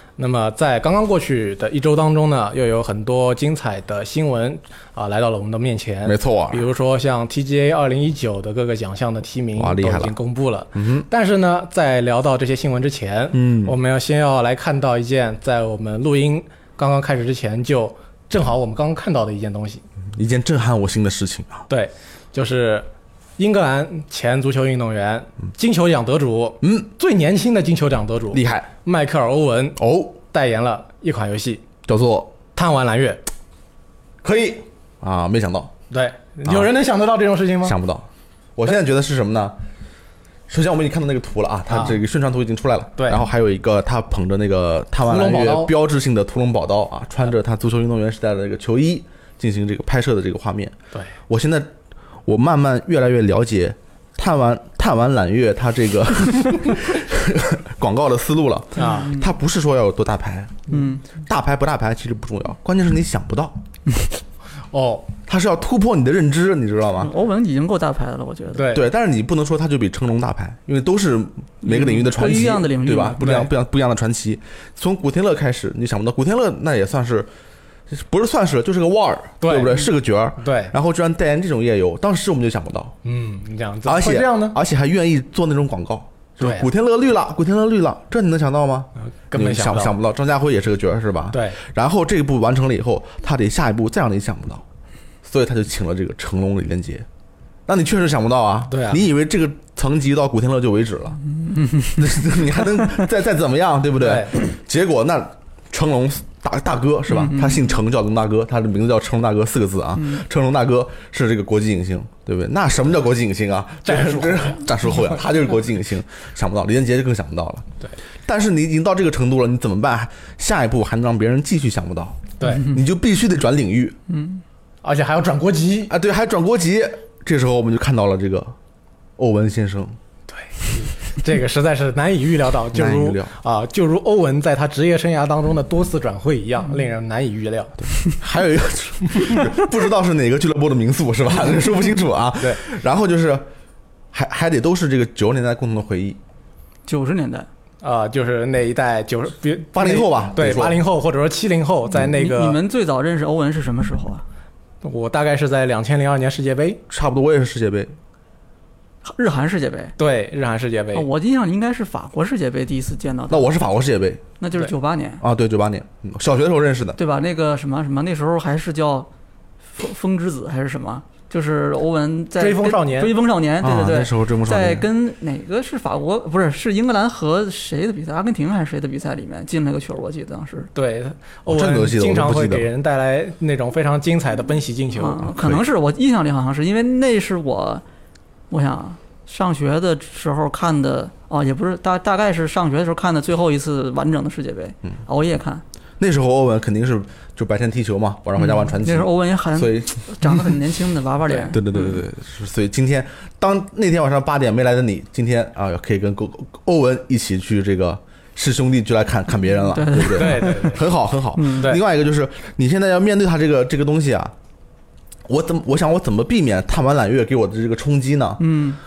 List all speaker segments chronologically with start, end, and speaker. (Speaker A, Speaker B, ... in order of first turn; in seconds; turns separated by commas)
Speaker A: 0.2-19.8, Speaker B: 6.0-6.6, Speaker B: 9.6-10.2, Speaker B: 10.7-11.1, Speaker B: 13.3-13.8, Speaker B: 20.1-21.6, Speaker A: 21.7-22.9, Speaker A: 23.4-31.6, Speaker B: 26.6-26.9, Speaker B: 28.3-28.7, Speaker B: 29.8-30.2, Speaker B: 31.9-32.3, Speaker A: 32.5-33.3, Speaker B: 34.2-35.7, Speaker A: 35.9-37.8, Speaker B: 37.6-39.6, Speaker B: 40.5-50.7, Speaker A: 41.7-42.0, Speaker A: 43.0-43.2, Speaker A: 45.0-45.7, Speaker B: 51.3-51.7, Speaker B: 52.2-63.6, Speaker A: 58.8-59.1, Speaker C: 59.0-59.2, Speaker C: 60.7-61.0, Speaker A: 64.7-65.1, Speaker B: 65.3-67.1, Speaker C: 67.0-68.7, Speaker A: 68.5-68.8, Speaker B: 68.6-77.3, Speaker C: 71.6-73.5, Speaker B: 77.9-82.9, Speaker A: 79.4-80.7, Speaker A: 83.0-84.6, Speaker B: 83.8-94.6, Speaker A: 86.4-86.7, Speaker A: 89.0-90.0, Speaker A: 91.3-91.6, Speaker B: 95.2-97.0, Speaker B: 97.7-101.2, Speaker A: 98.7-99.0, Speaker C: 101.6-102.0, Speaker B: 101.9-117.7, Speaker A: 104.0-104.4, Speaker C: 107.1-107.6, Speaker A: 113.8-114.6, Speaker B: 118.2-124.0, Speaker A: 122.4-122.7, Speaker C: 124.1-124.4, Speaker A: 124.8-125.9, Speaker B: 125.9-128.6, Speaker B: 129.2-130.0, Speaker A: 130.3-137.8, Speaker B: 132.7-133.3, Speaker B: 138.0-143.4, Speaker B: 144.1-146.2, Speaker C: 146.9-147.5, Speaker A: 147.8-152.6, Speaker B: 149.7-150.8, Speaker C: 152.1-154.2, Speaker A: 154.8-156.8, Speaker B: 156.9-157.9, Speaker C: 159.0-159.9, Speaker A: 160.0-161.1, Speaker C: 160.9-163.5, Speaker B: 163.3-164.2, Speaker C: 164.4-165.2, Speaker B: 165.2-167.0, Speaker C: 167.0-169.1, Speaker C: 169.7-180.7, Speaker A: 172.4-173.2, Speaker B: 173.6-174.9, Speaker A: 180.7-185.3, Speaker B: 181.5-182.7, Speaker C: 184.9-187.8, Speaker B: 185.2-185.6, Speaker C: 188.5-195.6, Speaker B: 196.0-200.4, Speaker C: 198.4-202.0, Speaker B: 201.5-214.3, Speaker C: 209.6-210.7, Speaker A: 210.0-210.8, Speaker C: 211.4-211.7, Speaker A: 211.5-211.8, Speaker B: 215.2-218.4, Speaker C: 218.4-218.8